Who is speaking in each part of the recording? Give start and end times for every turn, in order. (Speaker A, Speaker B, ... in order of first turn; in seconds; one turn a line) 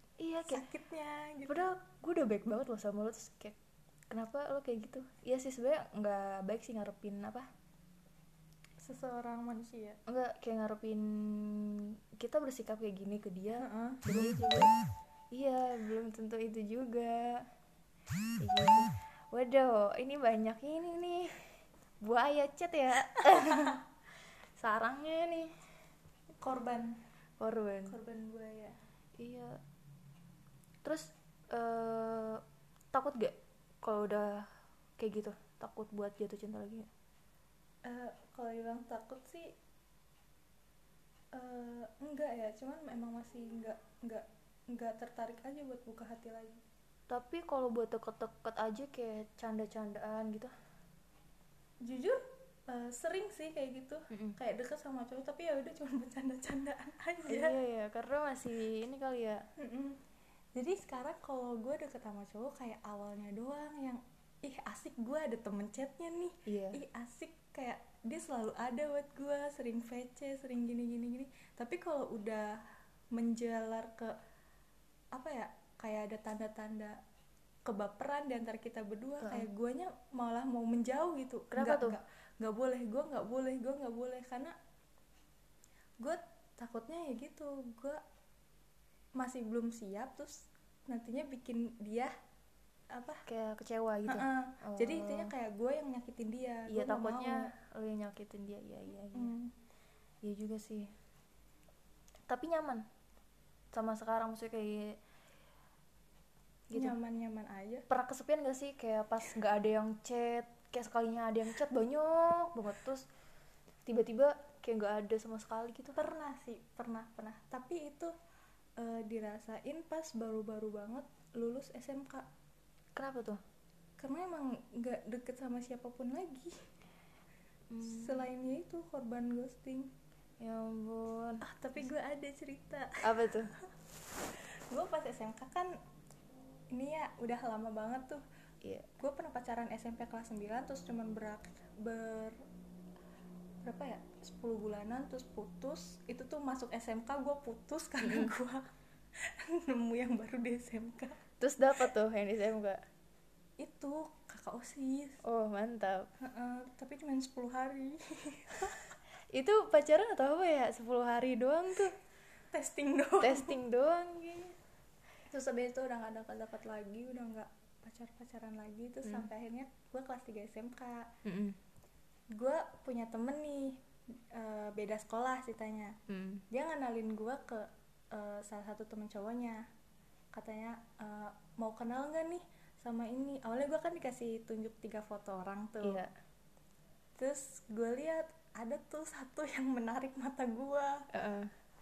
Speaker A: 0.2-0.6
Speaker B: 0.4-1.6
Speaker A: 1.5-3.6
Speaker A: 4.1-7.5
Speaker B: 8.8-10.0
Speaker A: 10.1-14.7
Speaker B: 13.6-14.0
Speaker A: 15.3-17.5
Speaker A: 18.4-21.5
Speaker A: 22.0-23.8
Speaker A: 24.6-25.5
Speaker B: 26.4-27.0
Speaker A: 27.4-27.9
Speaker B: 27.9-28.8
Speaker A: 29.2-29.6
Speaker A: 30.8-36.9
Speaker B: 37.8-39.5
Speaker B: 41.3-46.6
Speaker A: 47.1-50.5
Speaker B: 51.8-57.6
Speaker A: 54.1-54.4
Speaker A: 57.3-59.5
Speaker B: 59.6-60.0
Speaker B: 60.5-74.2
Speaker A: 66.5-66.8
Speaker B: 75.1-77.0
Speaker B: 77.7-84.5
Speaker A: 79.2-79.5
Speaker A: 81.5-82.0
Speaker B: 86.0-88.0
Speaker B: 89.2-92.1
Speaker B: 92.9-93.2
Speaker A: 93.3-95.3
Speaker B: 94.0-97.5
Speaker A: 96.7-99.3
Speaker B: 99.1-99.5
Speaker A: 100.2-100.9
Speaker A: 102.3-102.8
Speaker A: 103.7-105.0
Speaker A: 106.7-107.0
Speaker B: 106.7-107.8
Speaker A: 107.9-113.0
Speaker A: 113.8-116.0
Speaker B: 115.9-118.1
Speaker B: 118.8-122.2
Speaker A: 123.0-123.4
Speaker B: 124.0-126.7
Speaker A: 127.7-128.2
Speaker B: 127.8-129.9
Speaker A: 130.4-131.4
Speaker B: 131.4-133.6
Speaker A: 133.0-133.5
Speaker B: 134.7-135.7
Speaker B: 136.7-138.2
Speaker A: 138.6-138.9
Speaker B: 139.0-142.4
Speaker B: 143.6-151.2
Speaker A: 148.0-148.3
Speaker A: 151.4-152.8
Speaker B: 153.6-155.2
Speaker A: 155.2-156.1
Speaker B: 156.2-158.9
Speaker A: 159.3-161.9
Speaker B: 162.5-163.6
Speaker A: 163.2-164.6
Speaker B: 165.3-171.1
Speaker A: 171.2-171.6
Speaker B: 172.3-173.8
Speaker B: 174.3-176.0
Speaker A: 176.1-176.4
Speaker B: 176.5-179.6
Speaker B: 180.3-186.1
Speaker A: 185.8-186.1
Speaker B: 187.2-191.1
Speaker A: 191.1-191.5